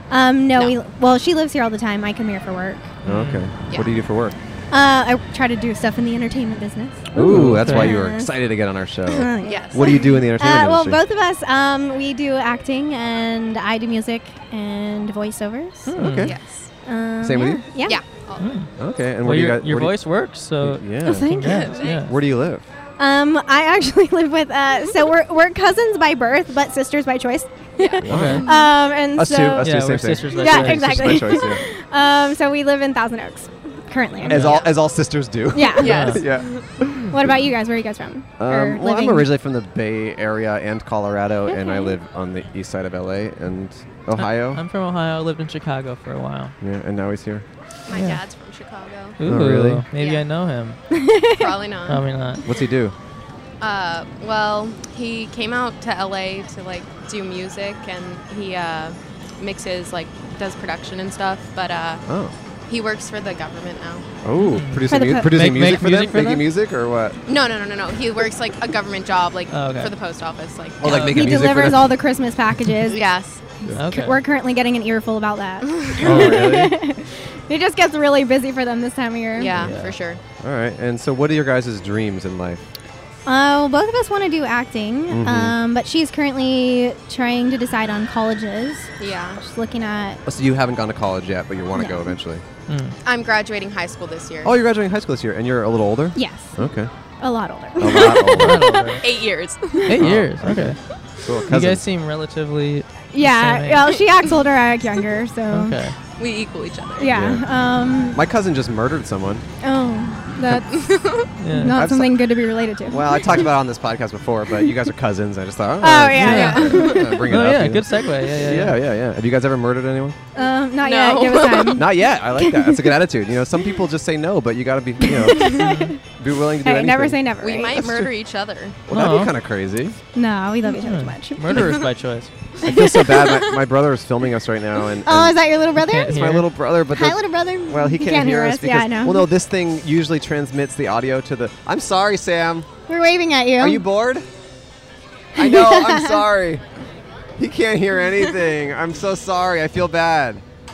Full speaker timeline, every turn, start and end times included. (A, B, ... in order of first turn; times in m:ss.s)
0:00.1-0:02.9 A
0:03.0-0:04.3 B
0:03.0-0:03.5 C
0:03.7-0:03.9 D
0:04.7-0:08.3 A
0:07.1-0:11.0 B
0:07.1-0:07.9 C
0:09.1-0:16.0 A
0:09.4-0:10.2 D
0:15.8-0:16.4 C
0:15.9-0:16.4 B
0:16.2-0:16.7 D
0:16.8-0:18.0 A
0:17.2-0:17.7 B
0:17.8-0:18.7 D
0:18.4-0:22.1 C
0:18.8-0:21.3 B
0:21.0-0:21.9 A
0:21.5-0:22.1 D
0:21.8-0:22.6 B
0:23.0-0:34.6 A
0:27.8-0:28.7 D
0:28.0-0:28.4 C
0:28.0-0:28.4 B
0:29.1-0:31.6 B
0:29.6-0:31.4 C
0:34.2-0:34.6 C
0:34.3-0:37.3 B
0:34.3-0:34.8 D
0:35.5-0:36.5 A
0:35.8-0:36.6 D
0:35.8-0:36.2 C
0:37.0-0:39.3 A
0:38.4-0:44.6 B
0:41.5-0:41.9 A
0:44.2-0:46.6 C
0:46.6-0:47.4 B
0:47.9-0:49.2 D
0:47.9-0:48.2 C
0:49.2-0:50.8 C
0:49.2-0:49.9 B
0:49.9-0:50.4 D
0:50.9-0:51.5 A
0:51.3-0:52.2 D
0:51.9-0:52.4 C
0:52.4-0:52.9 B
0:53.6-1:02.0 D
1:02.0-1:02.3 B
1:02.7-1:04.1 D
1:04.2-1:07.2 B
1:04.4-1:06.5 C
1:04.8-1:05.4 A
1:07.2-1:11.1 D
1:09.5-1:09.9 C
1:10.8-1:12.0 B
1:10.8-1:13.0 A
1:10.9-1:11.3 C
1:12.9-1:13.6 D
1:13.7-1:14.2 C
1:13.8-1:19.5 A
1:15.7-1:16.2 D
1:16.0-1:16.8 B
1:19.3-1:20.2 D
1:19.5-1:20.0 C
1:20.4-1:22.6 B
1:23.2-1:30.2 A
1:25.1-1:25.6 B
1:29.0-1:29.4 D
1:30.2-1:32.4 B
1:31.8-1:32.1 A
1:32.7-1:33.0 C
1:33.0-1:34.5 D
1:34.4-1:36.9 B
1:36.1-1:36.6 A
1:37.2-1:39.0 A
1:37.8-1:38.7 B
1:38.3-1:39.0 C
1:39.0-1:40.1 D
1:39.9-1:40.8 C
1:40.0-1:41.8 B
1:41.3-1:44.0 C
1:43.1-1:45.8 A
1:45.5-1:46.0 C
1:46.2-1:47.1 D
1:47.0-1:48.2 A
1:47.1-1:47.4 B
1:48.1-1:49.4 B
1:49.6-1:53.4 A
1:50.7-1:51.3 D
1:51.4-1:51.8 C
1:51.7-1:52.2 B
1:52.9-2:00.2 B
1:55.8-1:57.2 A
1:56.2-1:58.8 C
1:56.3-1:57.2 D
2:00.4-2:03.0 A
2:00.8-2:01.9 D
2:01.8-2:07.2 B
2:05.0-2:06.0 A
2:05.6-2:05.9 C
2:06.6-2:07.8 A
2:07.4-2:08.8 D
2:07.7-2:08.1 B
2:08.9-2:10.0 B
2:08.9-2:09.3 C
2:10.1-2:11.7 A
2:10.6-2:12.3 C
2:11.5-2:11.8 D
2:12.6-2:13.0 A
2:12.6-2:22.7 B
2:13.2-2:13.6 D
2:15.0-2:19.3 A
2:15.8-2:16.5 C
2:22.9-2:23.8 A
2:23.6-2:24.3 B
2:25.4-2:26.2 A
2:25.4-2:26.6 B
2:27.4-2:30.4 B